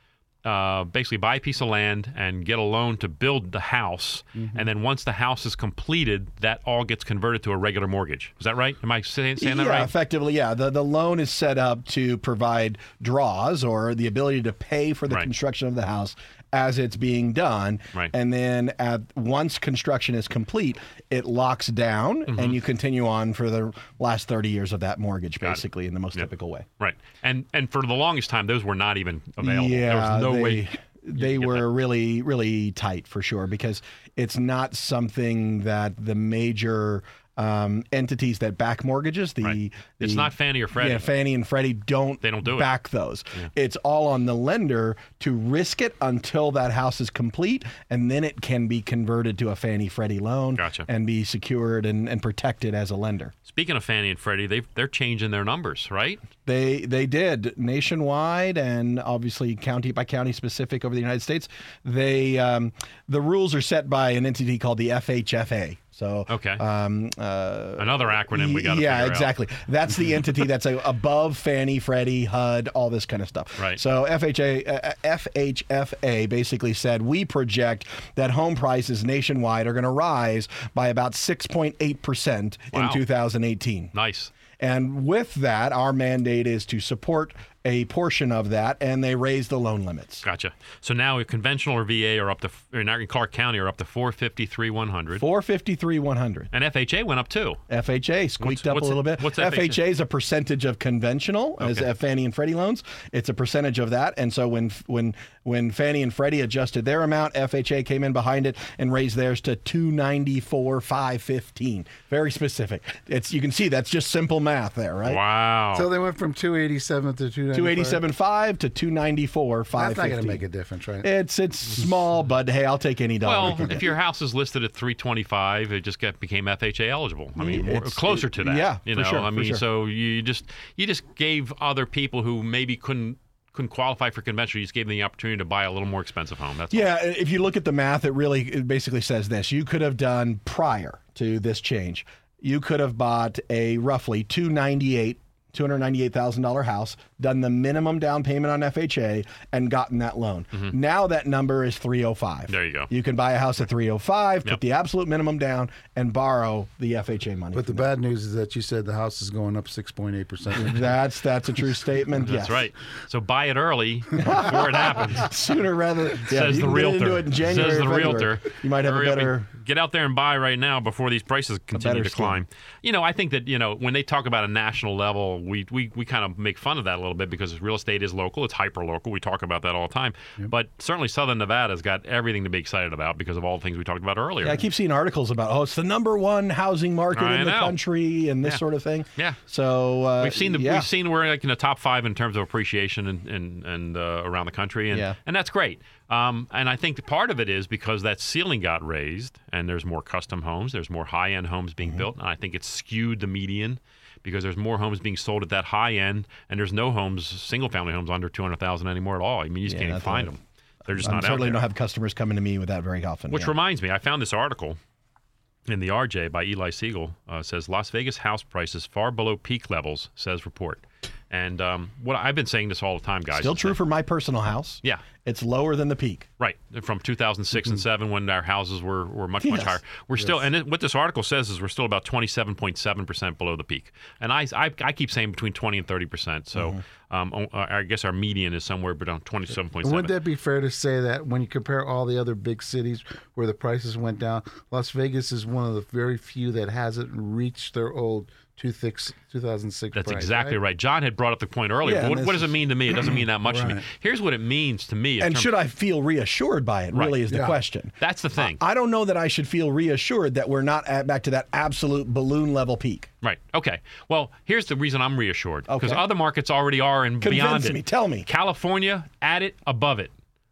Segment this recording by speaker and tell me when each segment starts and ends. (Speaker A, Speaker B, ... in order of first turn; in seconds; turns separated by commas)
Speaker A: 0.4-9.9, Speaker B: 9.4-26.6, Speaker A: 22.3-22.6, Speaker A: 26.8-31.7, Speaker B: 29.4-53.3, Speaker A: 39.4-41.0, Speaker A: 42.2-42.7, Speaker A: 50.6-50.9, Speaker A: 53.5-56.2, Speaker B: 56.4-83.9, Speaker A: 66.3-66.6, Speaker A: 67.8-69.3, Speaker A: 82.7-83.0, Speaker A: 83.9-84.3, Speaker B: 84.6-90.2, Speaker A: 90.2-95.2, Speaker B: 95.2-96.5, Speaker A: 96.5-97.6, Speaker B: 97.7-115.2, Speaker A: 98.4-99.8, Speaker A: 101.6-101.9, Speaker A: 115.0-115.9, Speaker C: 115.7-118.0, Speaker B: 117.5-120.4, Speaker C: 119.8-121.1, Speaker B: 121.0-123.8, Speaker A: 123.2-136.9, Speaker B: 127.4-129.6, Speaker B: 136.7-157.9, Speaker A: 152.5-152.9, Speaker C: 157.5-160.9, Speaker B: 160.5-162.6, Speaker A: 162.2-165.3, Speaker B: 164.2-169.5, Speaker A: 166.2-184.6, Speaker B: 171.7-172.4, Speaker B: 184.4-190.9, Speaker A: 187.1-187.8, Speaker A: 190.2-211.6, Speaker B: 194.9-195.2, Speaker B: 209.7-210.3, Speaker B: 210.9-213.5, Speaker A: 213.3-214.8, Speaker A: 215.7-223.8, Speaker B: 223.3-226.3, Speaker A: 226.4-240.1, Speaker B: 229.4-229.8, Speaker C: 239.8-250.6, Speaker A: 249.9-255.5, Speaker B: 251.8-252.5, Speaker C: 253.1-253.8, Speaker B: 255.2-263.1, Speaker A: 256.9-257.2, Speaker C: 257.3-257.6, Speaker A: 258.0-258.6, Speaker A: 263.2-270.1, Speaker B: 265.7-266.0, Speaker B: 267.2-268.3